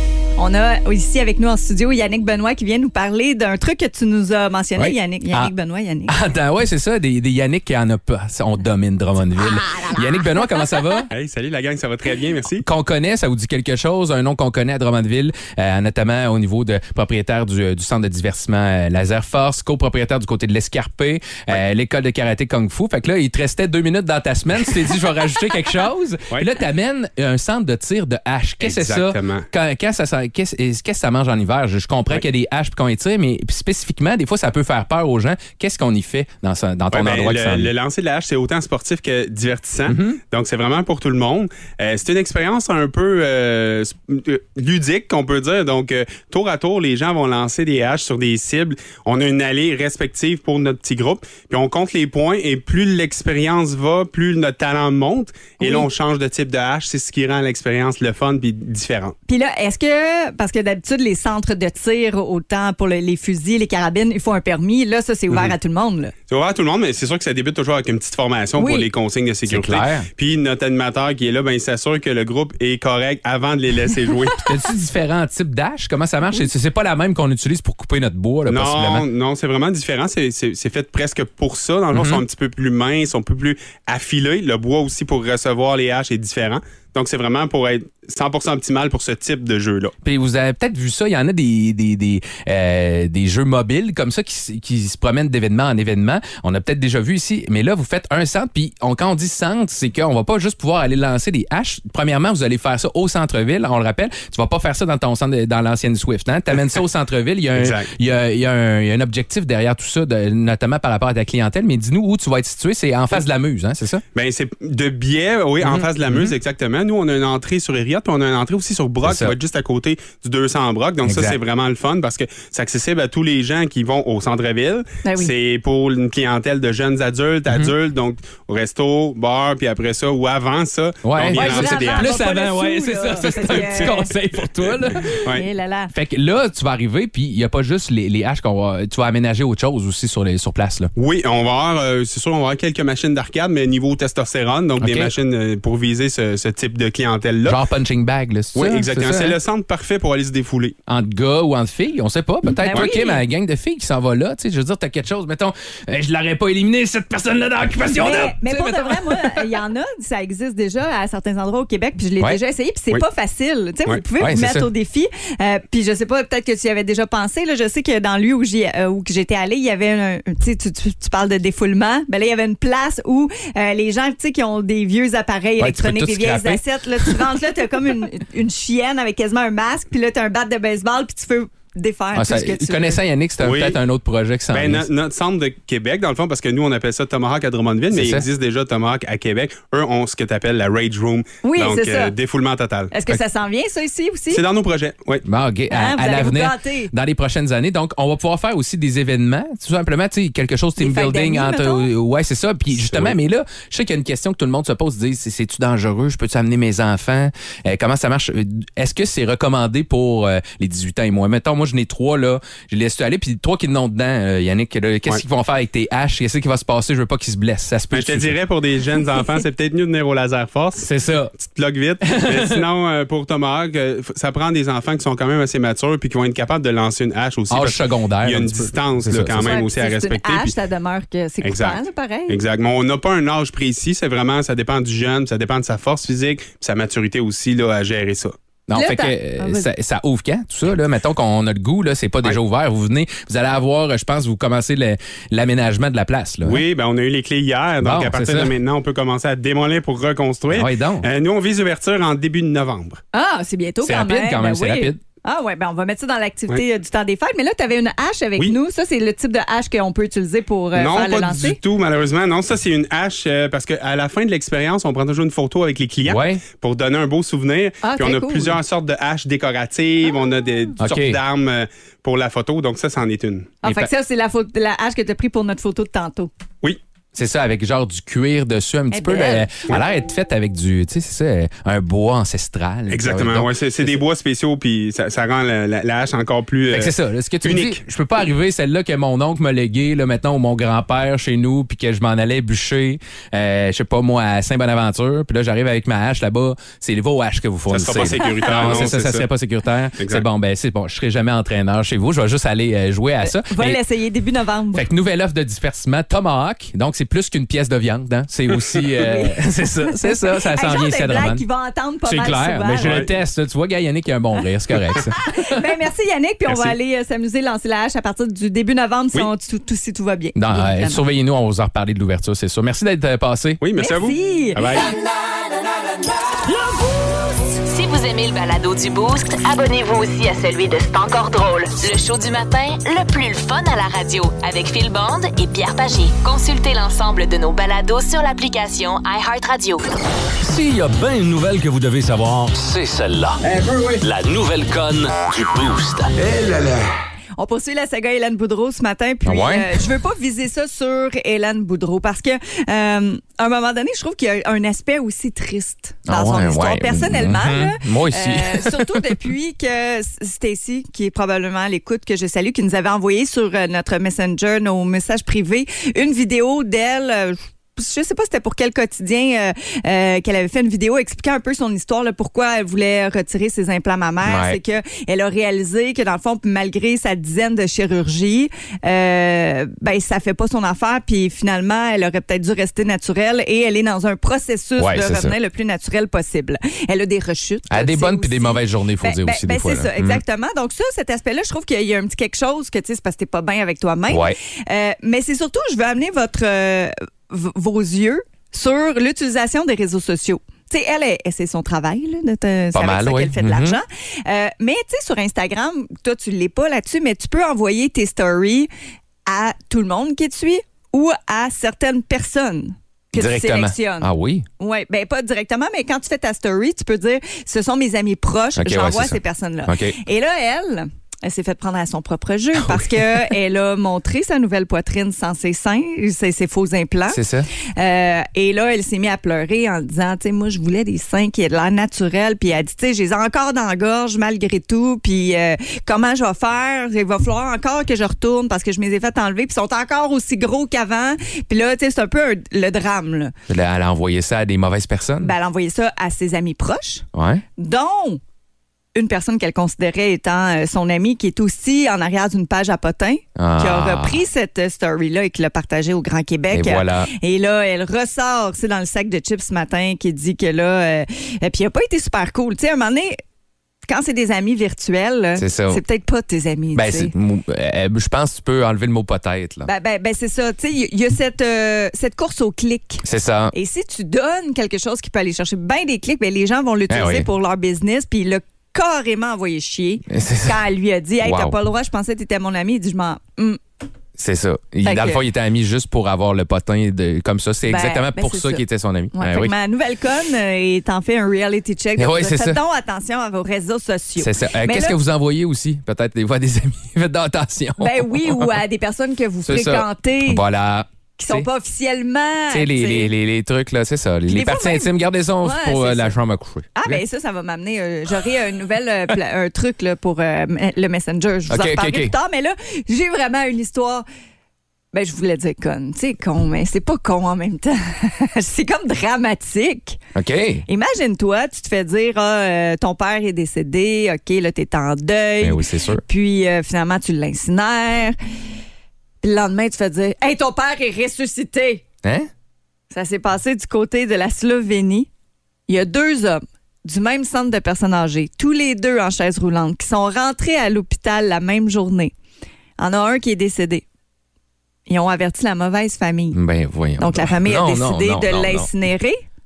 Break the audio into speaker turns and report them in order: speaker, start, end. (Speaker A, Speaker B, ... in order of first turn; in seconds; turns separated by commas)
Speaker A: 0.4-6.1, Speaker B: 4.8-5.5, Speaker B: 6.1-11.1, Speaker A: 9.6-10.7, Speaker C: 11.1-12.6, Speaker B: 12.6-37.7, Speaker C: 28.6-29.4, Speaker C: 36.9-59.1, Speaker B: 39.9-40.2, Speaker A: 55.6-55.9, Speaker A: 59.3-66.1, Speaker C: 66.3-74.5, Speaker A: 68.6-68.9, Speaker B: 69.5-70.1, Speaker B: 74.4-79.1, Speaker C: 78.5-89.9, Speaker B: 81.9-82.2, Speaker B: 90.0-114.0, Speaker C: 107.5-107.9, Speaker C: 114.1-132.2, Speaker B: 115.6-116.3, Speaker B: 119.0-119.4, Speaker B: 121.0-121.4, Speaker A: 125.0-125.3, Speaker B: 127.5-127.7, Speaker B: 131.0-135.2, Speaker A: 131.3-134.1, Speaker C: 133.3-134.1, Speaker C: 134.6-135.4, Speaker A: 135.3-135.9, Speaker B: 135.9-140.9, Speaker C: 140.9-147.6, Speaker B: 144.8-145.1, Speaker B: 147.4-149.4, Speaker C: 148.5-150.7, Speaker B: 150.9-159.5, Speaker A: 152.6-153.2, Speaker A: 157.9-183.0, Speaker B: 164.2-164.7, Speaker B: 175.6-177.3, Speaker B: 182.1-184.9, Speaker C: 183.4-183.8, Speaker C: 184.5-192.9, Speaker B: 187.9-188.3, Speaker A: 191.4-192.1, Speaker A: 192.9-194.4, Speaker C: 194.3-195.2, Speaker B: 195.2-218.4, Speaker A: 195.7-196.9, Speaker A: 200.8-201.9, Speaker C: 202.8-203.1, Speaker C: 217.9-230.5, Speaker B: 220.8-221.3, Speaker B: 222.0-222.6, Speaker B: 227.5-229.6, Speaker A: 229.4-232.4, Speaker C: 231.4-238.3, Speaker B: 238.7-246.6, Speaker A: 238.7-239.7, Speaker C: 246.4-253.0, Speaker B: 247.8-248.6, Speaker B: 250.5-251.1, Speaker A: 253.1-261.6, Speaker B: 253.8-255.0, Speaker C: 260.8-273.6, Speaker B: 266.0-266.4, Speaker A: 267.8-268.6, Speaker B: 270.8-271.2, Speaker A: 273.6-276.3, Speaker B: 273.6-273.9, Speaker B: 277.1-284.0, Speaker A: 278.9-279.5, Speaker C: 282.9-286.9, Speaker B: 286.7-303.8, Speaker C: 287.4-287.8, Speaker C: 297.7-299.2, Speaker C: 300.0-300.2, Speaker A: 303.2-304.9, Speaker B: 304.7-311.4, Speaker A: 308.9-313.0, Speaker B: 312.0-315.6, Speaker C: 312.8-313.1, Speaker A: 315.1-321.0, Speaker B: 320.3-323.6, Speaker C: 323.6-324.9, Speaker A: 323.8-324.6, Speaker D: 327.4-339.9, Speaker E: 340.4-346.8, Speaker A: 347.4-408.7, Speaker B: 349.2-349.8, Speaker B: 356.1-359.1, Speaker B: 374.2-374.6, Speaker B: 384.8-385.4, Speaker B: 387.7-390.2, Speaker B: 394.1-394.4, Speaker B: 402.7-403.8, Speaker A: 409.3-443.3, Speaker B: 413.1-414.4, Speaker B: 418.6-420.0, Speaker B: 422.5-423.3, Speaker B: 427.1-427.5, Speaker B: 443.5-445.3, Speaker A: 445.2-447.0, Speaker B: 447.1-447.4, Speaker A: 447.6-448.2, Speaker A: 448.9-463.2, Speaker B: 453.4-454.2, Speaker B: 456.5-457.1, Speaker A: 463.9-467.1, Speaker B: 465.4-465.8, Speaker B: 466.7-469.7, Speaker A: 469.6-483.6, Speaker B: 473.0-473.5, Speaker B: 476.9-477.3, Speaker B: 480.1-480.6, Speaker B: 481.2-481.5, Speaker B: 484.2-489.5, Speaker A: 484.8-485.2, Speaker A: 487.7-495.0, Speaker B: 492.0-492.6, Speaker B: 494.2-498.6, Speaker A: 497.8-500.4, Speaker B: 499.4-501.5, Speaker A: 501.2-503.1, Speaker B: 502.5-507.0, Speaker A: 504.3-506.1, Speaker A: 506.7-514.0, Speaker B: 511.5-512.1, Speaker A: 514.9-520.0, Speaker B: 520.1-520.6, Speaker A: 520.7-528.2, Speaker B: 525.4-526.0, Speaker A: 529.2-531.8, Speaker B: 532.0-532.3, Speaker A: 532.9-535.1, Speaker A: 535.7-542.1, Speaker A: 542.8-543.8, Speaker A: 544.9-546.4, Speaker B: 546.3-548.7, Speaker A: 547.0-549.2